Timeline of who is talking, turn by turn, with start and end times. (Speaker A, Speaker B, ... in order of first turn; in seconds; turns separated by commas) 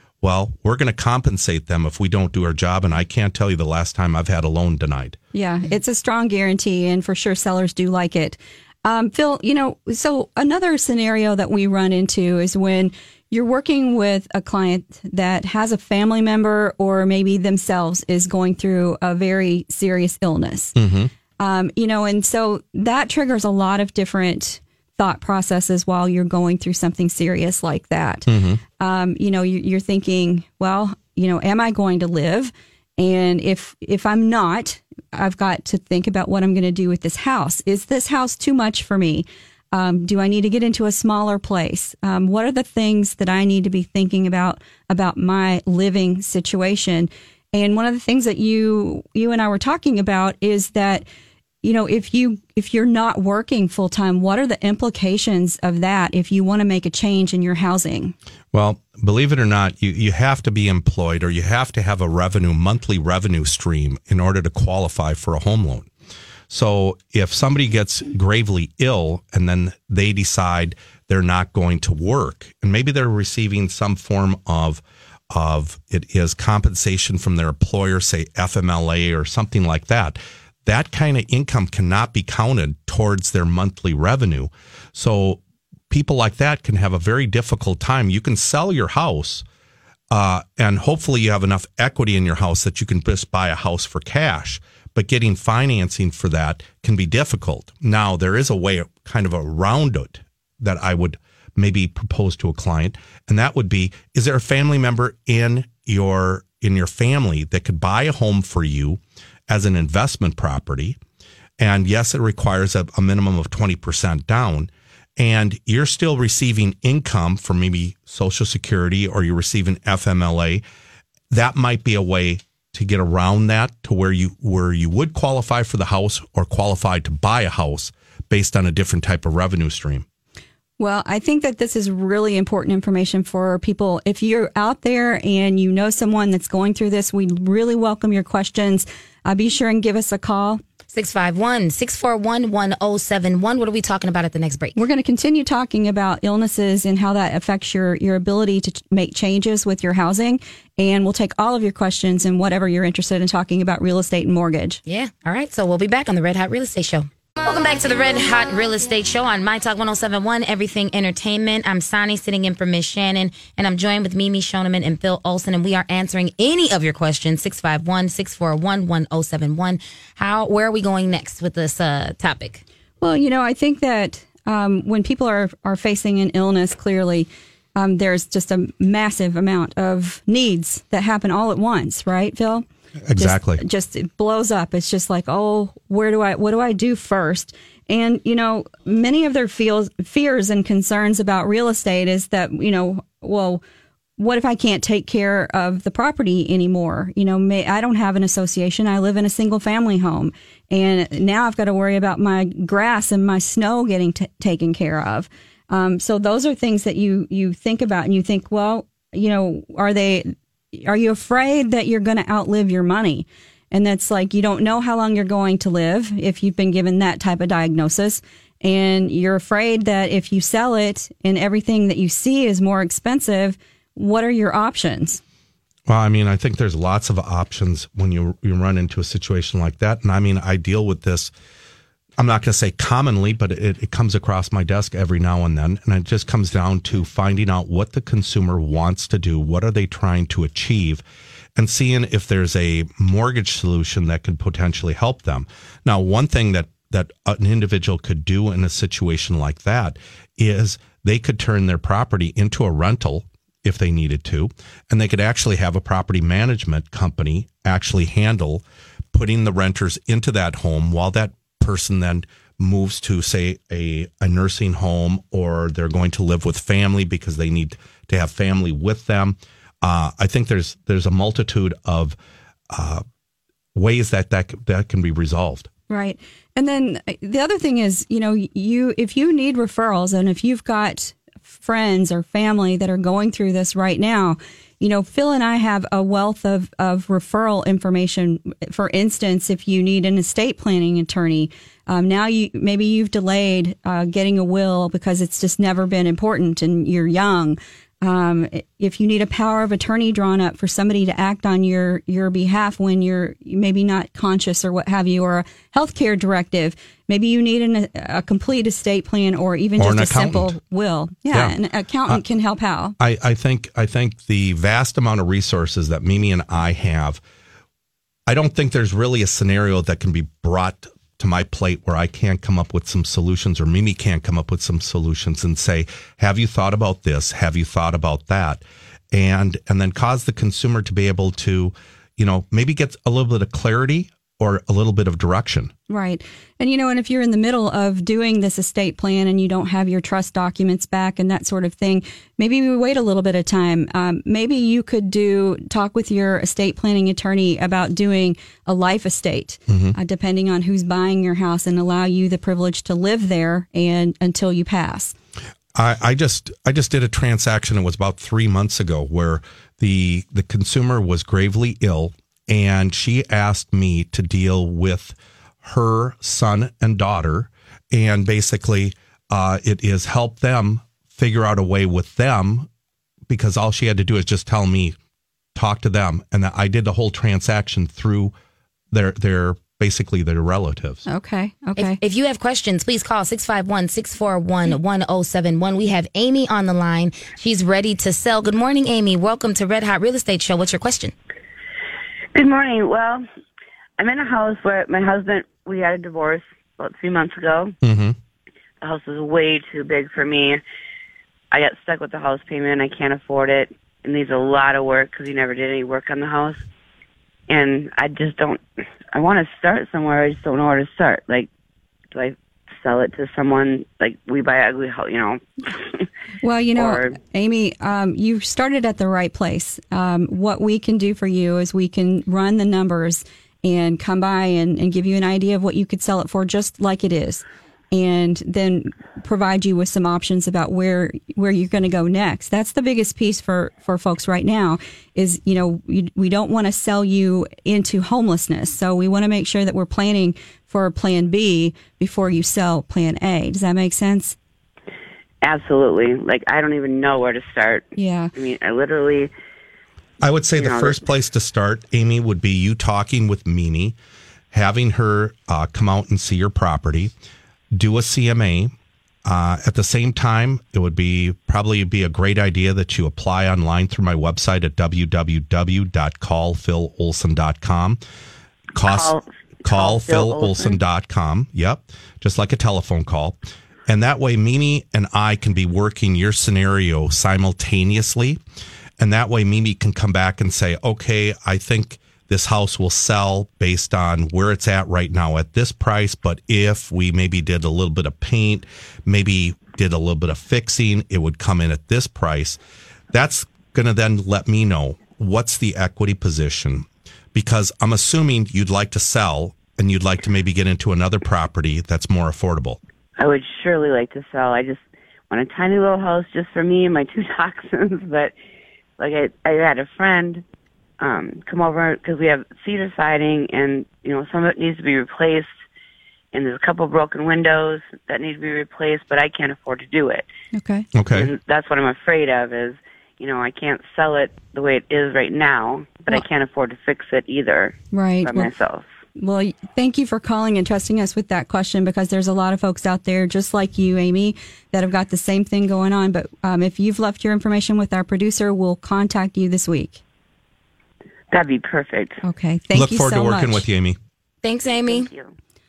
Speaker A: 0.2-5.2, Speaker B: 5.3-20.8, Speaker A: 20.8-21.1, Speaker B: 21.4-51.1, Speaker A: 28.3-28.6, Speaker B: 51.6-58.1, Speaker A: 58.5-65.9, Speaker A: 66.5-89.5, Speaker A: 90.1-111.0, Speaker A: 111.6-120.6, Speaker A: 121.3-130.1, Speaker B: 130.8-140.6, Speaker C: 140.9-144.8, Speaker B: 144.8-154.8, Speaker C: 154.9-172.6, Speaker B: 173.0-193.6, Speaker A: 183.1-183.6, Speaker B: 194.2-225.2, Speaker A: 225.9-231.3, Speaker A: 232.2-241.0, Speaker A: 241.6-272.2, Speaker A: 272.7-273.0, Speaker A: 273.8-275.7, Speaker B: 275.9-313.0, Speaker A: 309.8-310.5, Speaker A: 313.0-317.2, Speaker A: 318.3-335.7, Speaker B: 335.9-355.1, Speaker A: 349.7-349.9, Speaker A: 355.7-372.7, Speaker A: 373.3-375.0, Speaker A: 375.6-378.3, Speaker A: 378.9-381.1, Speaker B: 381.1-382.0, Speaker C: 381.8-391.1, Speaker D: 392.4-393.2, Speaker D: 394.0-397.8, Speaker A: 397.8-398.2, Speaker D: 398.8-400.6, Speaker D: 401.5-406.6, Speaker D: 407.5-411.5, Speaker D: 412.1-416.1, Speaker B: 416.4-444.4, Speaker D: 416.8-417.2, Speaker D: 445.4-449.3, Speaker B: 448.0-448.3, Speaker A: 450.2-454.0, Speaker D: 450.6-451.0, Speaker A: 454.5-457.1, Speaker A: 457.7-458.7, Speaker A: 459.3-468.0, Speaker A: 468.8-478.4, Speaker D: 468.9-470.8, Speaker A: 479.0-492.6, Speaker A: 493.1-502.8, Speaker D: 503.2-508.3, Speaker D: 509.0-510.4, Speaker D: 511.0-515.5, Speaker D: 516.3-520.3, Speaker B: 520.5-520.9, Speaker A: 521.0-521.3, Speaker D: 521.1-528.9, Speaker B: 527.9-528.5, Speaker B: 529.2-540.0, Speaker D: 541.3-542.2, Speaker B: 542.2-543.6, Speaker A: 542.7-544.0, Speaker C: 544.4-545.1, Speaker D: 544.9-545.3